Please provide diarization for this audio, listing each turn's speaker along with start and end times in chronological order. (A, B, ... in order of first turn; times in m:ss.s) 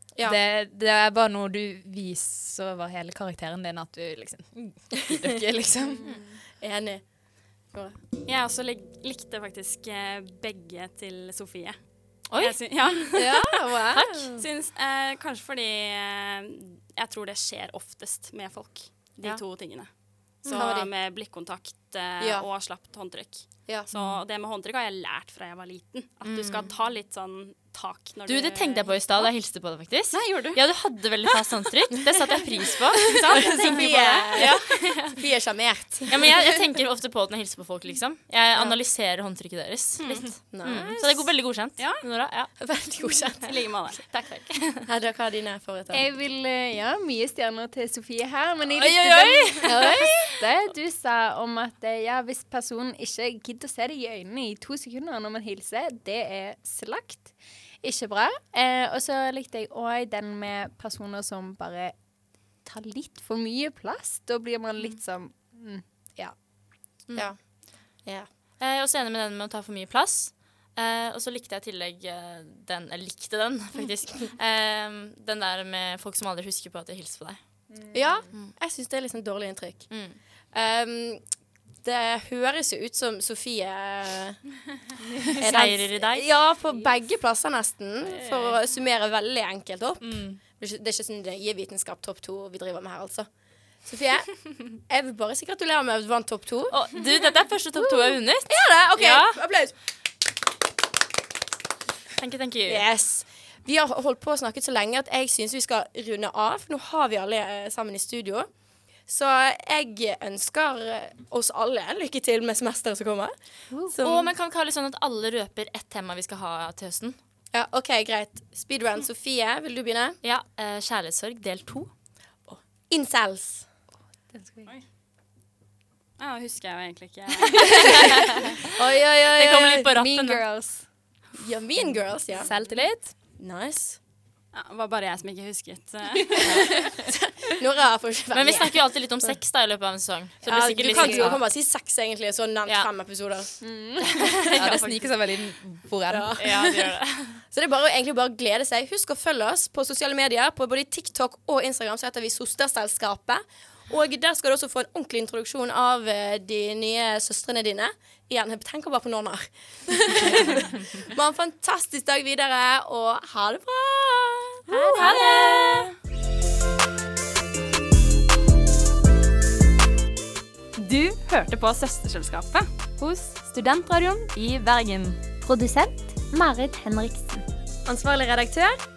0:00.2-0:06.0 A
0:05.0-0:05.3 B
0:06.0-0:06.4 C
0:06.6-0:07.0 B
0:08.2-0:11.8 D
0:12.3-0:12.9 E
0:12.4-0:13.5 D
0:13.1-0:14.4 B
0:13.9-0:14.3 E
0:14.4-0:19.9 D
0:20.4-0:20.7 E
0:20.4-0:29.3 D
0:20.5-0:20.9 B
0:22.2-0:22.5 B
0:26.2-0:26.7 E
0:28.3-0:35.2 E
0:30.1-0:30.6 D
0:32.9-0:34.6 B
0:35.1-0:36.2 B
0:36.1-0:42.6 E
0:40.0-0:40.4 D
0:40.5-0:41.3 B
0:41.8-0:42.0 D
0:42.6-0:43.5 B
0:43.4-0:44.0 D
0:44.0-0:44.9 E
0:44.9-0:46.0 B
0:45.9-1:02.0 C
0:48.8-0:50.0 E
0:49.6-0:50.4 B
1:02.6-1:06.4 C
1:07.2-1:07.4 B
1:08.6-1:17.4 E
1:17.8-1:18.2 C
1:17.9-1:21.2 B
1:19.9-1:20.2 E
1:21.8-1:24.4 B
1:25.4-1:33.3 B
1:25.4-1:26.2 E
1:30.0-1:30.4 A
1:33.8-1:36.8 B
1:36.7-1:39.4 E
1:38.5-1:39.7 B
1:42.2-1:42.8 E
1:42.7-1:48.5 B
1:49.1-1:53.3 B
1:53.9-1:54.3 B
1:54.0-1:57.2 E
1:57.5-2:00.2 B
2:00.2-2:01.9 E
2:02.5-2:03.7 B
2:04.3-2:04.7 C
2:06.2-2:08.2 D
2:07.7-2:08.7 E
2:08.6-2:09.9 B
2:09.3-2:10.4 E
2:09.9-2:10.8 C
2:11.4-2:12.5 B
2:12.4-2:13.2 A
2:13.4-2:14.0 B
2:14.5-2:16.4 D
2:16.4-2:19.3 B
2:16.4-2:16.7 E
2:18.3-2:21.4 E
2:20.4-2:23.6 B
2:20.5-2:21.3 C
2:23.6-2:24.2 C
2:24.1-2:25.1 E
2:24.6-2:26.6 A
2:26.1-2:26.9 B
2:26.4-2:27.4 E
2:27.5-2:45.2 B
2:44.7-2:45.9 A
2:45.2-2:45.9 E
2:50.9-2:52.7 D
2:53.0-2:55.3 A
2:55.3-2:57.5 C
2:57.9-2:58.7 B